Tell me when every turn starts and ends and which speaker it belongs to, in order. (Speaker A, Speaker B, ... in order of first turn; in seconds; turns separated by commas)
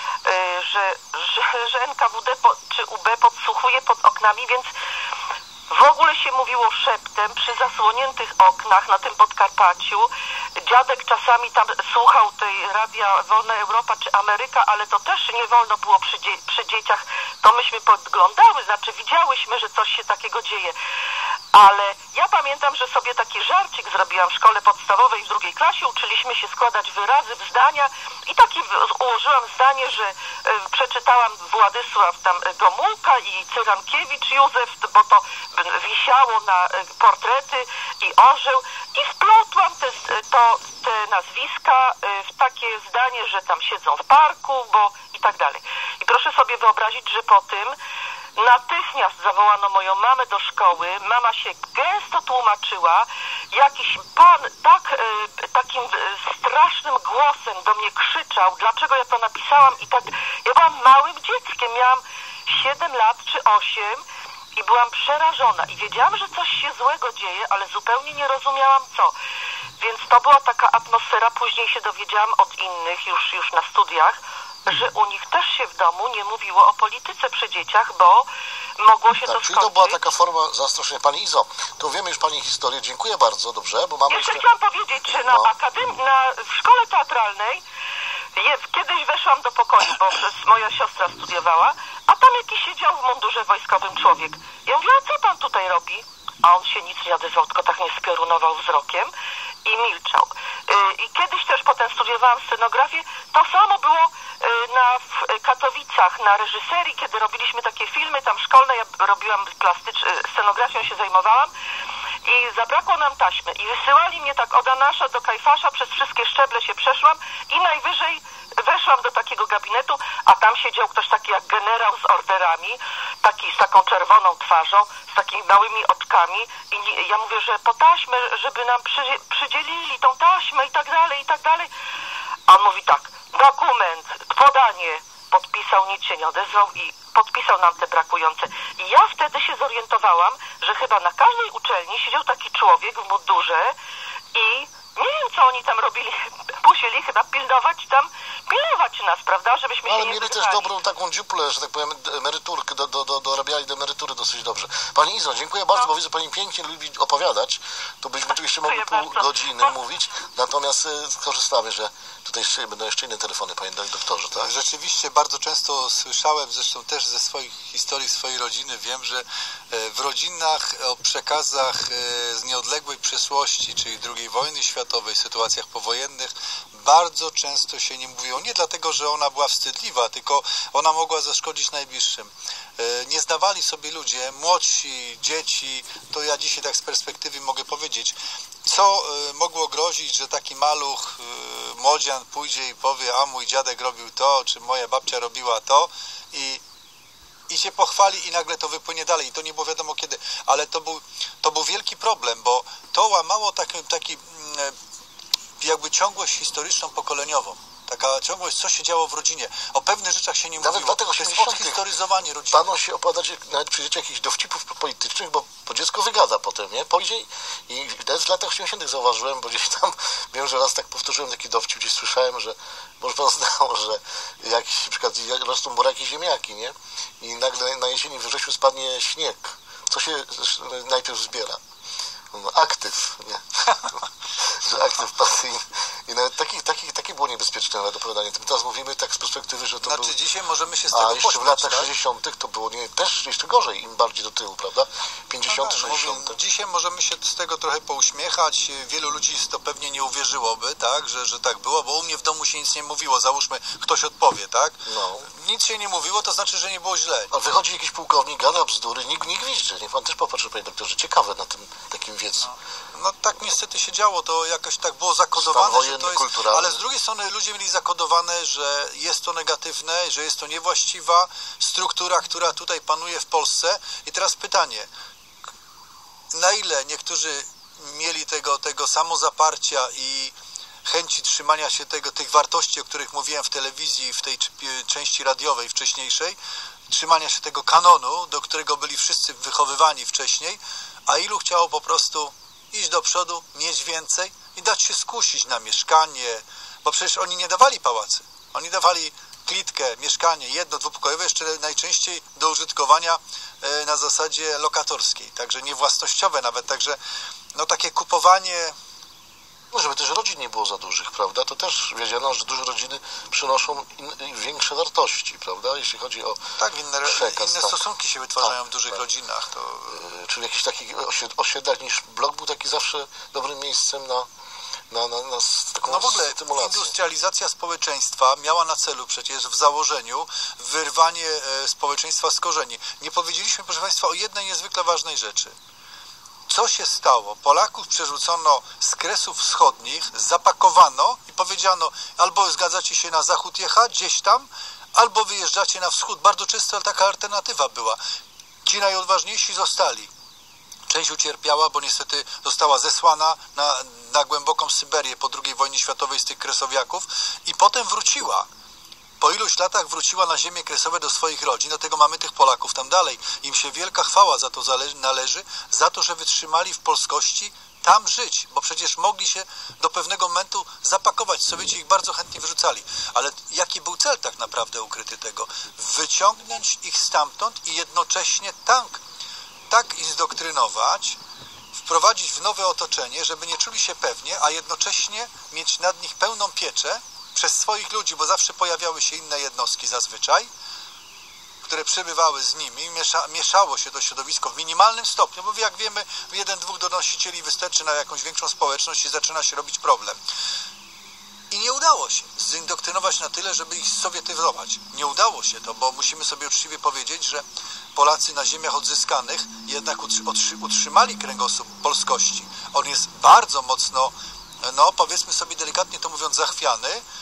Speaker A: 0.2-4.7, Speaker A: 5.7-10.1, Speaker A: 10.6-20.7, Speaker A: 21.5-47.8, Speaker A: 48.4-64.0, Speaker A: 64.5-69.1, Speaker A: 69.8-78.3, Speaker A: 78.8-80.1, Speaker B: 79.2-84.4, Speaker A: 84.1-87.6, Speaker B: 85.0-85.5, Speaker A: 88.3-99.1, Speaker A: 99.6-111.5, Speaker A: 112.2-131.7, Speaker A: 132.5-143.8, Speaker A: 144.3-150.7, Speaker B: 149.8-164.5, Speaker A: 158.6-159.2, Speaker C: 164.3-196.6, Speaker C: 197.5-204.7, Speaker C: 205.6-212.7, Speaker B: 210.6-211.9, Speaker B: 212.5-231.6, Speaker B: 232.3-233.4, Speaker B: 234.6-240.2, Speaker C: 239.8-241.9, Speaker B: 240.9-246.4, Speaker C: 245.5-257.3, Speaker B: 254.8-255.3, Speaker B: 257.3-262.5, Speaker C: 262.4-274.9, Speaker B: 265.3-266.8, Speaker C: 276.3-280.3, Speaker C: 280.8-286.4, Speaker C: 286.9-307.0, Speaker C: 307.5-308.7, Speaker B: 309.7-316.4, Speaker C: 316.6-320.0, Speaker B: 317.0-317.8, Speaker B: 318.4-319.0, Speaker B: 319.9-324.3, Speaker B: 324.9-326.9, Speaker C: 325.8-335.5, Speaker C: 336.5-348.0, Speaker C: 348.6-350.1, Speaker C: 350.9-358.5, Speaker C: 359.2-379.0, Speaker C: 379.7-381.2, Speaker C: 381.7-390.5, Speaker C: 391.6-400.2, Speaker C: 401.5-407.4, Speaker C: 407.9-417.0